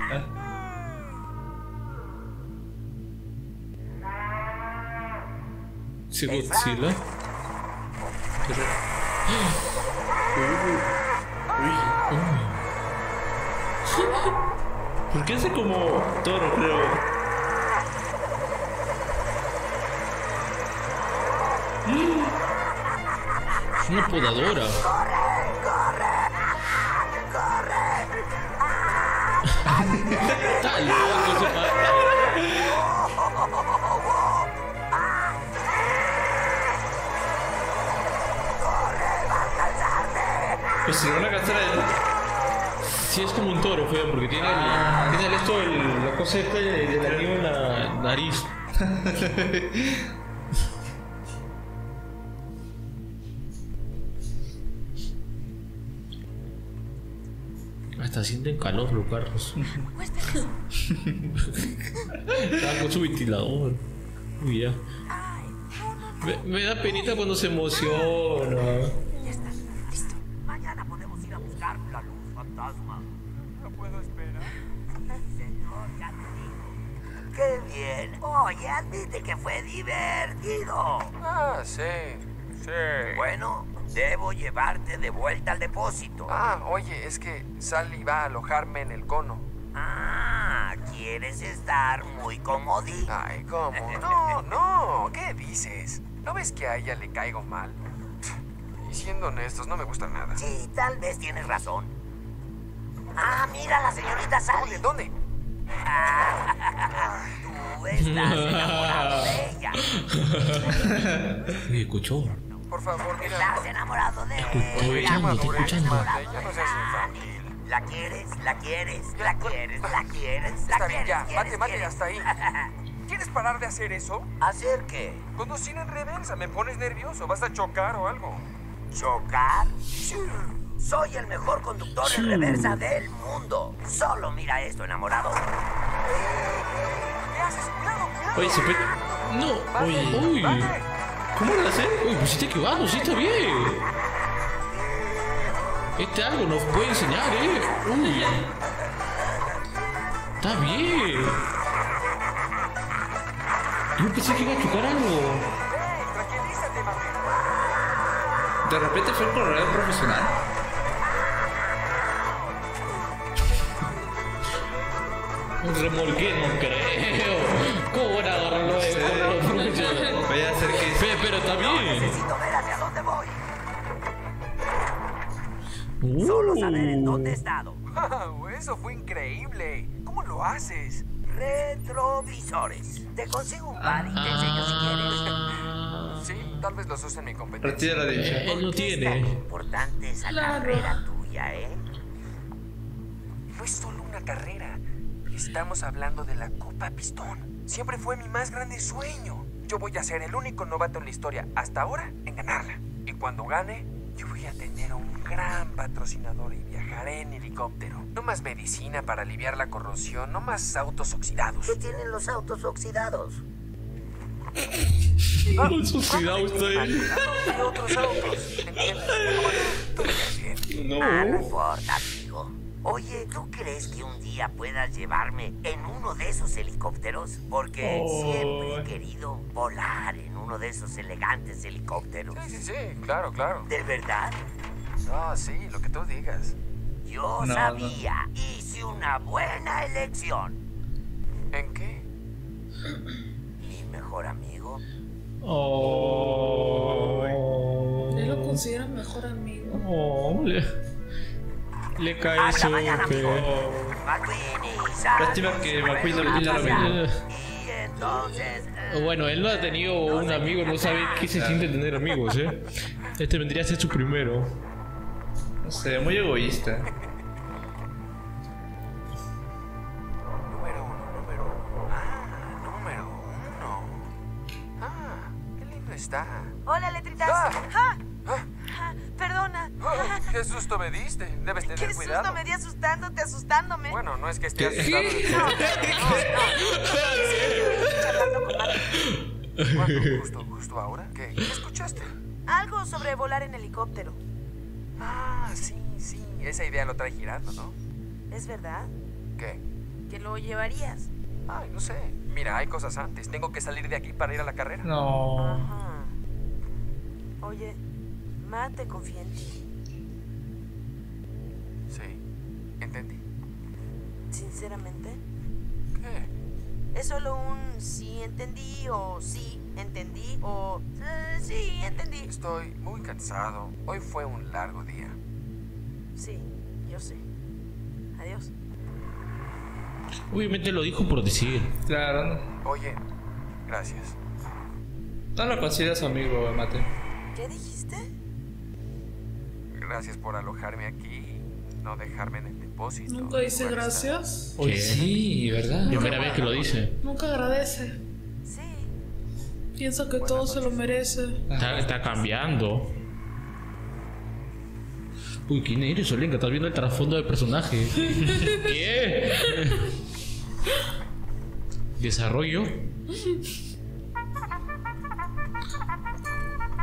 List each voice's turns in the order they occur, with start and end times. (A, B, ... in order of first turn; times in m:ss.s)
0:06.1-0:07.0 A
0:06.3-0:06.9 B
0:08.4-0:08.8 C
0:09.3-0:09.6 A
0:10.4-0:10.9 A
0:11.6-0:12.0 C
0:12.1-0:12.6 A
0:15.1-0:17.0 C
0:21.9-0:22.4 C
0:23.8-0:24.8 A
0:24.8-0:31.5 B
0:29.7-0:30.6 C
0:30.6-0:32.3 A
0:31.3-0:31.7 C
0:32.4-0:32.7 C
0:32.7-0:34.4 B
0:34.9-0:35.3 B
0:38.6-0:41.0 B
0:40.9-0:42.0 C
0:43.1-0:48.5 A
0:44.4-0:45.4 C
0:47.0-0:47.3 C
0:48.8-0:50.1 C
0:58.0-0:59.6 A
0:59.6-0:59.9 C
1:00.0-1:00.5 D
1:00.9-1:01.3 C
1:02.3-1:03.8 A
1:04.4-1:04.8 A
1:05.1-1:06.4 D
1:06.2-1:09.0 A
1:09.2-1:09.5 B
1:10.2-1:13.1 B
1:13.6-1:14.5 E
1:15.3-1:16.8 B
1:17.3-1:21.1 B
1:21.2-1:23.3 E
1:23.1-1:26.3 B
1:26.3-1:29.5 E
1:29.7-1:33.1 B
1:33.1-1:37.8 E
1:33.7-1:34.4 B
1:38.8-1:40.4 E
1:40.4-1:42.0 B
1:43.2-1:44.8 B
1:44.5-1:45.1 E
1:45.8-1:49.8 B
1:48.0-1:50.9 A
1:50.9-1:51.5 C
1:51.6-1:52.4 A
1:52.7-1:53.7 E
1:53.2-2:02.7 B
1:54.4-1:56.1 A
1:54.7-1:57.5 E
1:59.4-2:00.0 E
2:00.6-2:02.3 E
2:03.1-2:04.3 E
2:04.4-2:05.2 B
2:05.4-2:08.4 E
2:08.9-2:10.1 B
2:10.7-2:15.5 B
2:12.0-2:12.8 A
2:17.3-2:19.2 E
2:18.4-2:18.9 C
2:19.3-2:20.8 A
2:19.7-2:20.9 E
2:19.9-2:20.2 C
2:21.4-2:22.0 C
2:22.0-2:23.8 A
2:26.0-2:28.5 A
2:30.4-2:31.4 A
2:34.0-2:35.5 A
2:35.7-2:37.3 E
2:38.6-2:40.4 C
2:45.6-2:50.3 A
2:48.6-2:51.2 C
2:49.8-2:50.2 F
2:50.9-2:52.2 A
2:51.4-2:53.4 B
2:56.0-2:57.4 A
2:56.2-2:57.8 B
2:57.9-3:01.1 E
3:01.2-3:05.4 B
3:03.8-3:04.3 C
3:04.2-3:06.6 A
3:06.2-3:08.3 E
3:07.6-3:08.6 C
3:08.1-3:09.4 A
3:08.5-3:11.8 B
3:10.2-3:11.0 F
3:13.5-3:31.8 E
3:31.7-3:33.4 B
3:35.4-3:37.6 A
3:35.5-3:40.7 E
3:39.1-3:39.6 A
3:40.7-3:41.6 A
3:41.0-3:52.4 B
3:47.8-3:48.9 C
3:52.3-3:53.7 E
3:53.6-3:54.4 B
3:55.0-3:56.6 E
3:57.0-4:00.6 B
3:57.4-3:58.0 C
4:01.5-4:02.1 E
4:03.6-4:04.8 B
4:05.4-4:08.6 A
4:05.8-4:07.4 C
4:08.1-4:09.8 F
4:09.7-4:10.7 A
4:12.0-4:13.5 A
4:12.4-4:13.4 B
4:13.1-4:14.0 C
4:14.0-4:19.1 B
4:15.2-4:17.0 C
4:16.2-4:17.2 A
4:18.9-4:24.5 A
4:19.9-4:21.3 B
4:21.3-4:21.7 C
4:25.6-4:26.9 C
4:30.5-4:34.1 E
4:34.8-4:36.6 E
4:36.7-4:38.0 D
4:37.2-4:37.6 E
4:38.6-4:40.3 D
4:39.8-4:42.4 E
4:41.6-4:44.0 D
4:43.9-4:46.4 E
4:44.6-4:46.4 C
4:44.8-4:45.2 F
4:45.3-4:49.0 D
4:46.7-4:47.8 A
4:48.9-4:50.2 A
4:49.7-4:52.2 E
4:52.5-4:54.2 D
4:55.0-4:57.8 E
4:58.3-4:58.9 D
4:59.4-4:59.6 E
5:00.1-5:01.1 D
5:01.5-5:04.9 E
5:04.8-5:05.7 C
5:05.4-5:06.1 D
5:07.4-5:07.8 D
5:08.4-5:09.6 D
5:11.9-5:12.2 E
5:12.8-5:13.2 E
5:14.3-5:15.2 D
5:16.0-5:16.3 E
5:16.9-5:22.3 D
5:22.3-5:25.2 E
5:26.2-5:27.2 D
5:28.2-5:28.5 D
5:30.3-5:31.8 A
5:31.9-5:32.4 C
5:32.6-5:33.0 E
5:33.7-5:34.2 E
5:35.4-5:36.9 C
5:37.4-5:38.1 D
5:39.7-5:44.2 E
5:43.1-5:44.5 F
5:44.6-5:45.1 A
5:44.6-5:46.2 C
5:45.8-5:48.0 F
5:45.9-5:47.0 A
5:48.4-5:48.9 D
5:49.8-5:51.4 F
5:50.2-5:50.9 E
5:51.5-5:51.9 C
5:51.6-5:52.9 A
5:55.5-5:59.9 A
6:02.0-6:02.9 A